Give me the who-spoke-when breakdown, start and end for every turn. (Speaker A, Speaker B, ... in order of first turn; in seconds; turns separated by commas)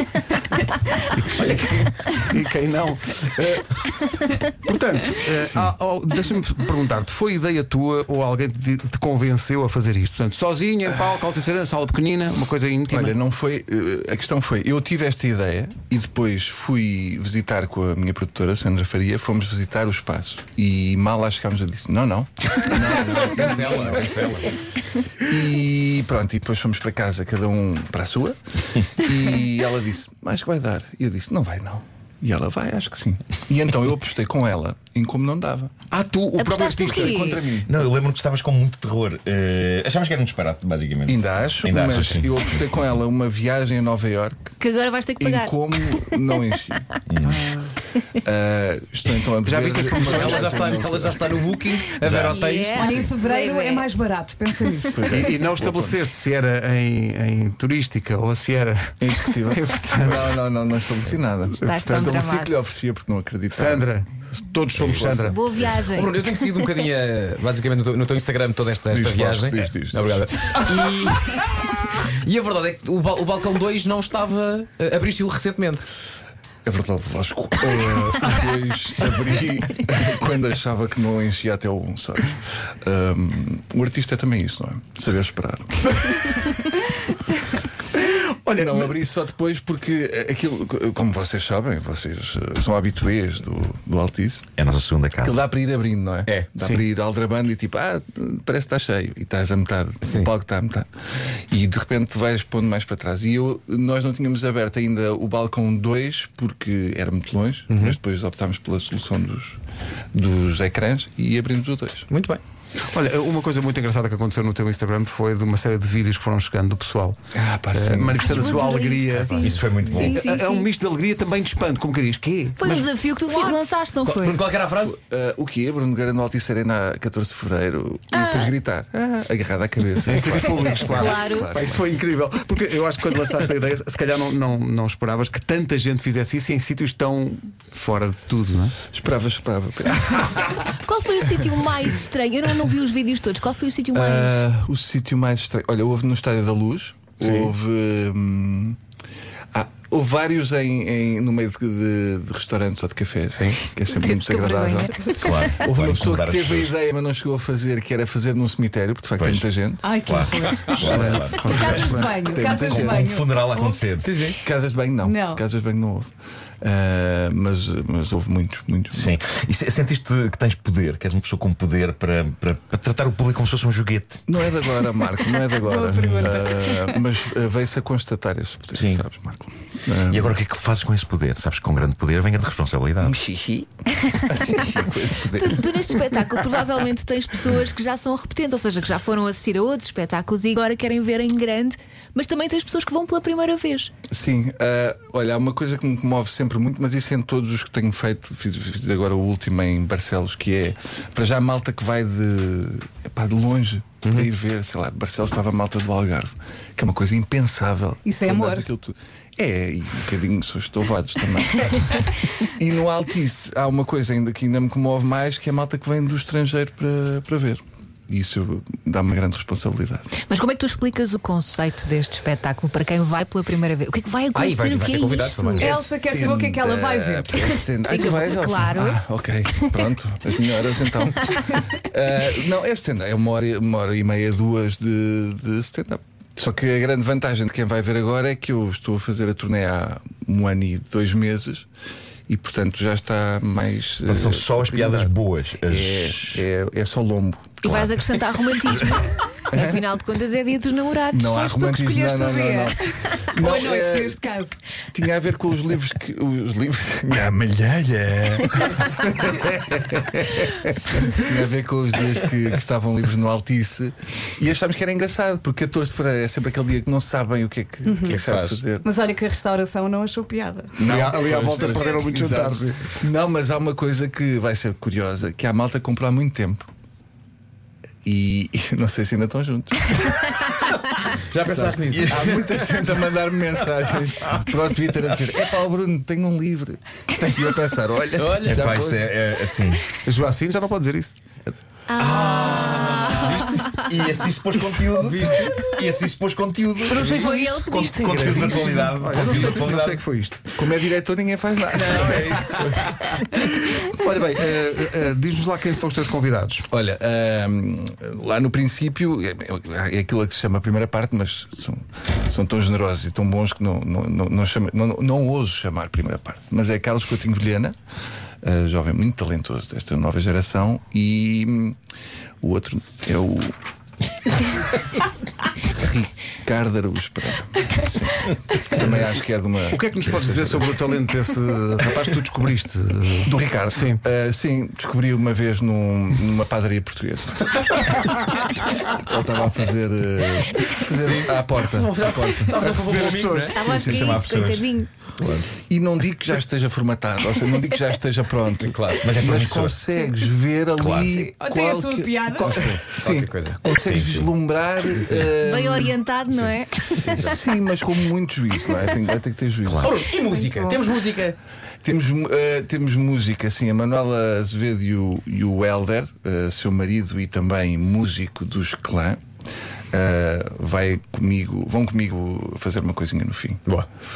Speaker A: 1.1-13.2, Speaker B: 5.4-5.7, Speaker B: 12.9-24.3, Speaker C: 22.8-24.5, Speaker B: 25.2-35.8, Speaker A: 35.9-37.5, Speaker D: 36.4-37.5, Speaker E: 37.5-42.8, Speaker B: 41.1-44.5, Speaker D: 44.6-46.4, Speaker B: 45.2-46.9, Speaker E: 47.1-47.4, Speaker A: 47.2-47.7, Speaker B: 48.2-51.5, Speaker A: 49.5-50.8, Speaker C: 49.9-52.9, Speaker E: 52.0-52.4, Speaker D: 52.2-53.9, Speaker F: 52.7-55.1, Speaker B: 54.9-56.0, Speaker A: 55.1-60.4, Speaker B: 59.0-63.9, Speaker A: 61.5-62.2, Speaker D: 61.6-62.5, Speaker A: 63.5-65.5, Speaker C: 64.8-75.8, Speaker B: 64.8-65.4, Speaker D: 65.0-66.1, Speaker B: 68.9-70.6, Speaker B: 76.7-85.9, Speaker A: 88.1-88.8, Speaker B: 88.5-94.5, Speaker E: 94.6-95.4, Speaker B: 95.2-109.6, Speaker C: 96.3-96.8, Speaker C: 100.0-100.3, Speaker C: 107.7-108.0, Speaker B: 110.1-112.1, Speaker C: 112.1-112.4, Speaker A: 112.8-117.2, Speaker B: 117.3-118.6, Speaker A: 117.7-123.6, Speaker D: 118.1-120.6, Speaker F: 119.3-120.4, Speaker E: 119.3-120.2, Speaker D: 122.6-124.4, Speaker C: 124.0-125.0, Speaker B: 124.8-131.8, Speaker D: 128.2-128.5, Speaker A: 130.0-138.8, Speaker D: 130.8-131.4, Speaker B: 138.9-140.7, Speaker D: 140.8-144.4, Speaker B: 143.9-148.8, Speaker B: 149.5-159.9, Speaker C: 153.3-153.6, Speaker D: 153.9-155.7, Speaker E: 155.2-156.7, Speaker E: 159.2-161.6, Speaker F: 159.8-163.9, Speaker A: 160.8-162.2, Speaker B: 160.9-163.0, Speaker E: 162.6-164.1, Speaker C: 164.0-164.4, Speaker B: 164.3-166.1, Speaker F: 165.0-165.4, Speaker B: 166.6-169.2, Speaker E: 168.9-174.3, Speaker B: 174.3-180.4, Speaker F: 175.6-177.0, Speaker E: 176.0-176.3, Speaker E: 178.7-179.0, Speaker E: 180.1-183.2, Speaker B: 183.0-185.8, Speaker D: 184.1-184.6, Speaker D: 185.4-193.9, Speaker B: 194.1-220.1, Speaker F: 208.0-208.7, Speaker D: 220.3-225.6, Speaker C: 224.3-225.9, Speaker F: 225.6-227.7, Speaker B: 226.0-241.7, Speaker D: 227.9-229.0, Speaker B: 242.3-247.6, Speaker E: 244.0-246.4, Speaker D: 247.6-251.6, Speaker E: 247.7-248.2, Speaker B: 249.5-249.8, Speaker B: 251.1-254.2, Speaker F: 251.3-254.6, Speaker B: 254.9-268.9, Speaker F: 267.8-268.2, Speaker C: 268.1-268.6, Speaker F: 268.8-270.9, Speaker B: 270.8-276.7, Speaker A: 270.8-273.0, Speaker B: 278.0-280.5, Speaker C: 281.3-282.1, Speaker B: 281.4-289.2, Speaker E: 281.9-282.3, Speaker C: 288.2-288.7, Speaker E: 288.4-289.8, Speaker A: 290.0-291.1, Speaker D: 291.9-294.0, Speaker E: 292.0-300.0, Speaker C: 293.2-293.6, Speaker C: 294.9-295.6, Speaker D: 296.9-299.5, Speaker F: 297.1-297.6, Speaker A: 298.2-300.5, Speaker B: 300.5-303.2, Speaker A: 303.2-306.7, Speaker B: 306.7-317.8, Speaker B: 318.4-321.8, Speaker B: 322.4-323.6, Speaker B: 325.6-330.8, Speaker A: 329.7-334.0, Speaker B: 333.2-342.7, Speaker C: 340.9-343.6, Speaker A: 342.5-343.6, Speaker E: 342.9-345.5, Speaker D: 343.6-344.9, Speaker B: 343.6-344.2, Speaker B: 345.6-356.0, Speaker C: 348.6-349.1, Speaker E: 349.0-349.8, Speaker E: 350.8-351.1, Speaker F: 351.0-352.6, Speaker C: 352.4-353.6, Speaker E: 353.7-354.3, Speaker C: 354.9-355.4, Speaker D: 355.4-357.3, Speaker E: 356.3-357.0, Speaker B: 357.2-360.0, Speaker E: 359.6-360.0, Speaker C: 359.8-361.4, Speaker D: 360.2-360.9, Speaker B: 361.8-369.2, Speaker B: 369.9-373.7